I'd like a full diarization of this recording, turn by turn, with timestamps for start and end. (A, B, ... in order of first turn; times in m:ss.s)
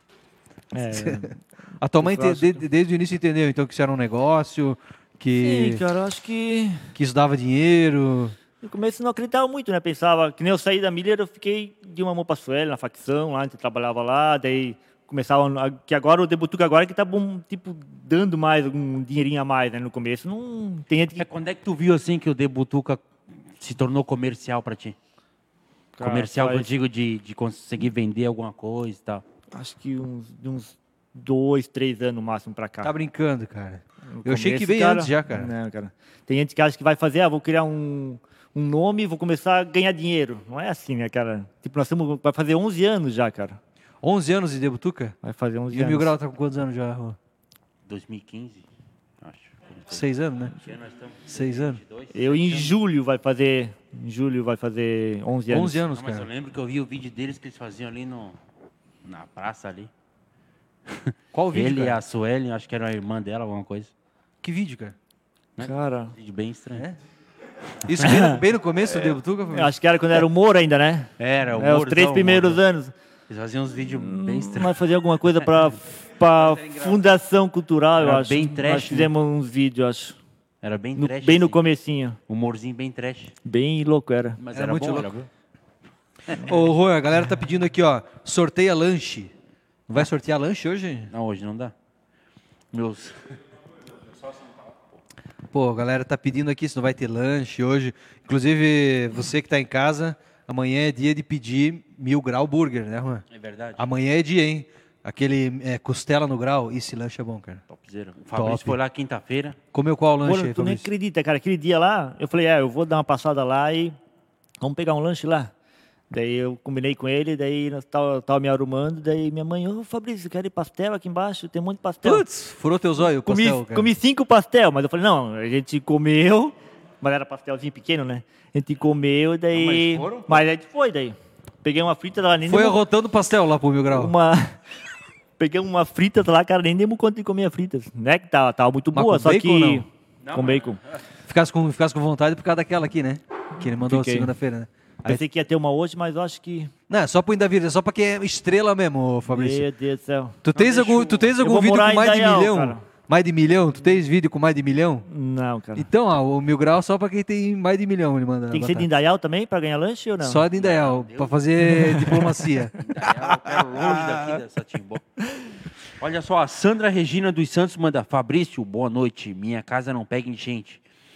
0:00.7-0:01.4 A
0:01.0-0:05.8 B
0:02.0-0:02.6 A
0:05.4-0:06.9 A
0:07.0-0:08.4 B
0:08.6-0:21.2 A
0:21.2-0:25.0 C
0:26.0-0:26.7 A
0:26.0-0:29.2 C
0:29.5-0:32.9 A
0:32.8-0:35.5 B
0:34.1-0:43.6 A
0:44.0-0:45.2 B
0:45.2-0:46.1 A
0:45.7-0:47.2 B
0:47.9-0:48.6 C
0:49.2-0:52.8 C
0:49.9-0:50.5 B
0:51.3-0:51.8 B
0:52.1-0:55.8 A
0:55.5-0:56.3 B
0:55.9-0:58.4 C
0:59.0-0:59.9 C
1:00.9-1:03.9 C
1:01.3-1:02.0 B
1:04.4-1:05.0 B
1:05.6-1:06.8 C
1:05.6-1:06.1 A
1:07.8-1:09.7 B
1:08.0-1:08.4 A
1:09.1-1:12.9 A
1:11.2-1:12.6 C
1:13.3-1:14.8 C
1:13.9-1:20.2 A
1:16.3-1:17.0 C
1:18.0-1:19.1 C
1:20.6-1:21.6 C
1:21.0-1:22.2 A
1:22.3-1:23.3 C
1:23.4-1:24.4 A
1:24.4-1:25.3 C
1:24.5-1:25.2 B
1:26.4-1:29.3 B
1:29.9-1:31.1 B
1:31.1-1:31.7 C
1:32.7-1:33.4 C
1:35.5-1:43.2 B
1:43.3-1:43.9 C
1:43.8-1:47.6 B
1:47.7-1:49.6 C
1:48.3-1:48.8 B
1:49.7-1:50.9 B
1:50.2-1:54.0 A
1:54.6-1:55.5 A
1:56.1-2:02.2 A
2:02.0-2:03.9 B
2:03.0-2:12.8 A
2:09.5-2:10.4 C
2:12.5-2:14.1 B
2:13.9-2:14.6 A
2:15.4-2:20.8 A
2:18.9-2:19.8 B
2:20.2-2:20.8 C
2:21.3-2:25.2 B
2:23.7-2:24.3 A
2:25.0-2:26.7 A
2:26.9-2:29.7 B
2:29.3-2:32.8 A
2:30.4-2:35.1 B
2:30.6-2:31.2 C
2:35.1-2:35.9 A
2:35.8-2:38.9 B
2:38.5-2:40.4 A
2:40.2-2:44.4 B
2:40.6-2:41.4 C
2:41.8-2:42.3 A
2:42.8-2:45.0 C
2:46.0-2:50.8 C